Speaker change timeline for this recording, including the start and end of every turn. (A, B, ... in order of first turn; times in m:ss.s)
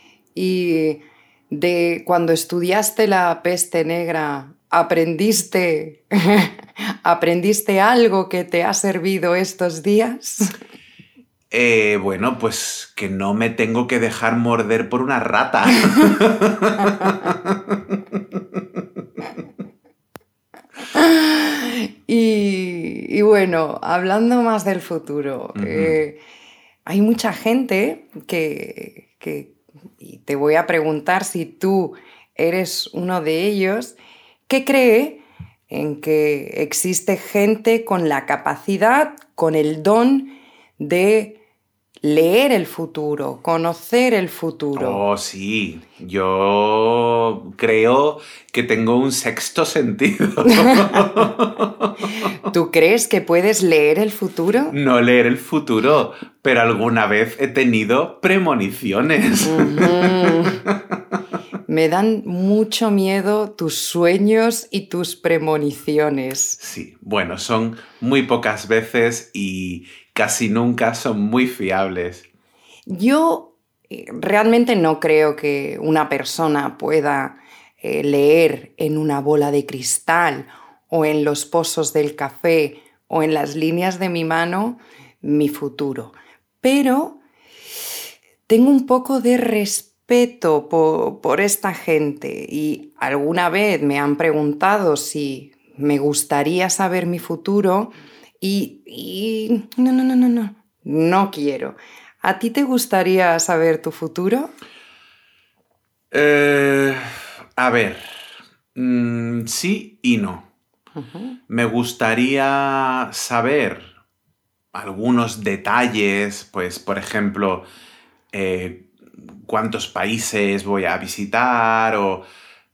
0:00.4-0:10.5 A
0:11.5-0:18.2 B
0:20.9-0:26.2 A
0:25.6-0:26.0 B
0:26.9-0:34.0 A
0:34.5-0:41.4 A
0:42.0-0:45.0 A
0:44.8-0:52.1 B
0:50.5-0:51.0 A
0:52.4-0:54.8 A
0:54.7-1:01.0 B
0:59.4-1:00.6 A
1:01.7-1:06.6 A
1:06.6-1:12.2 B
1:12.9-1:27.2 A
1:28.5-1:44.5 A
1:46.1-1:50.4 B
1:51.0-1:51.4 A
1:51.5-1:53.9 B
1:54.7-1:57.7 B
1:58.3-2:02.2 B